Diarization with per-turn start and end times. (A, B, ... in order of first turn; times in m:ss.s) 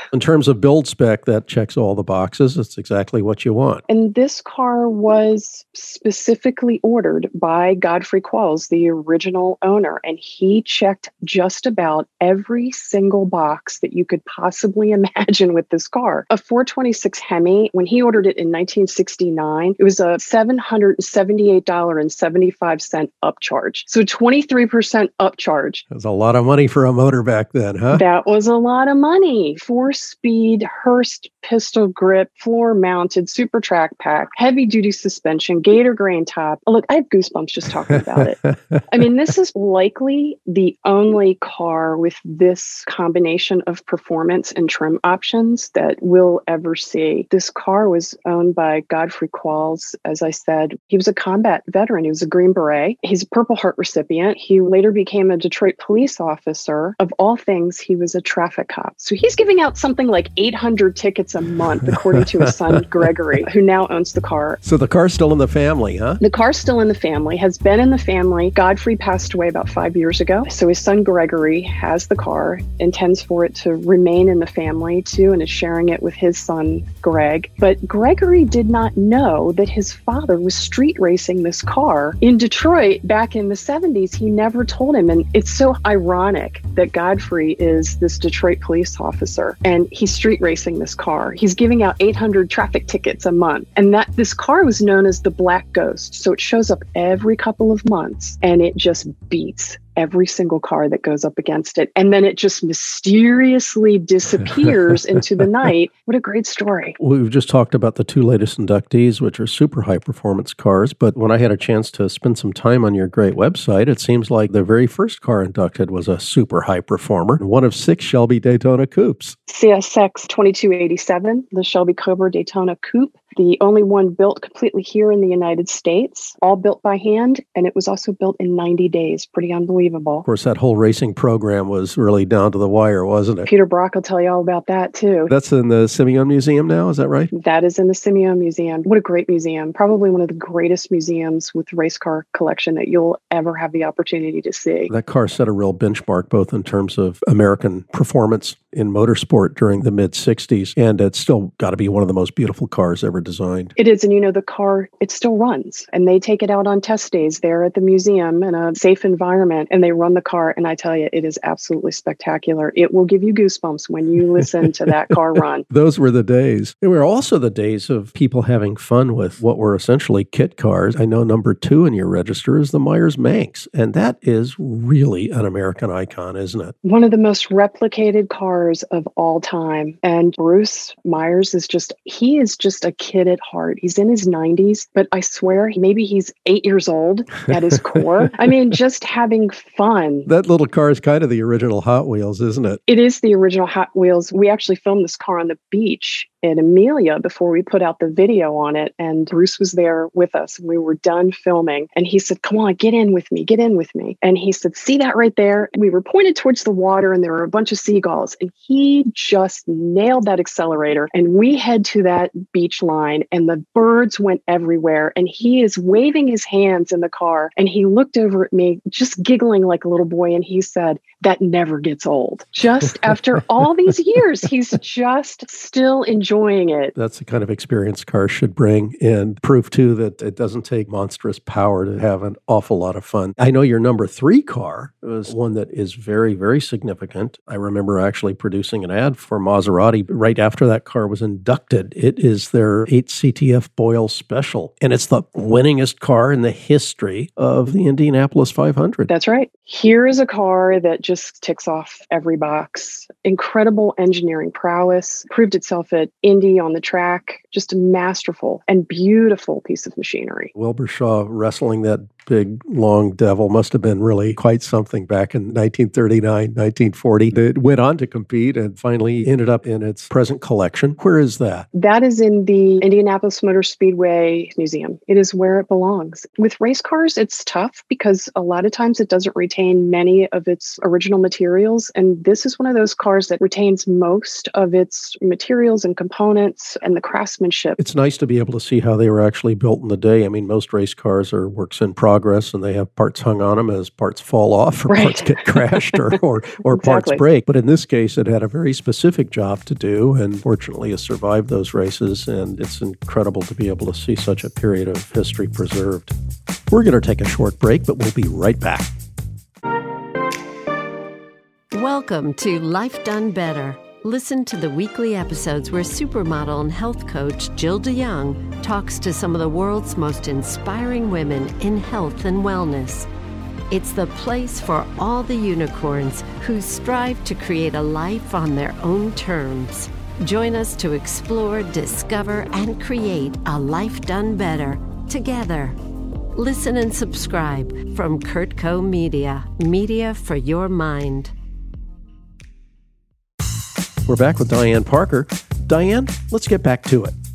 0:00.1-0:03.8 A
0:03.9-0:25.8 B
0:25.9-0:28.0 A
0:27.9-1:04.6 B
0:38.1-0:39.1 A
1:01.8-1:02.8 A
1:04.6-1:06.2 A
1:06.2-1:47.0 B
1:44.6-1:44.9 A
1:47.0-1:59.4 A
1:59.5-2:10.2 B
2:10.2-2:13.5 A
2:13.5-2:15.3 B
2:15.3-2:17.3 A
2:17.3-2:24.9 B
2:24.9-2:33.7 A
2:33.8-2:45.6 B
2:44.6-2:44.9 A
2:45.7-2:56.8 A
2:56.8-3:10.3 B
3:08.3-3:08.5 A
3:10.3-3:12.8 A
3:12.9-3:46.9 B
3:47.0-4:09.1 A
4:09.1-4:20.5 B
4:20.5-4:31.7 A
4:31.7-4:47.8 B
4:47.8-5:06.1 A
4:54.9-4:56.1 B
4:56.7-4:57.2 B
5:06.7-5:08.9 A
5:11.7-5:23.1 C
5:23.7-5:35.8 C
5:36.4-5:41.3 C
5:44.1-5:47.1 A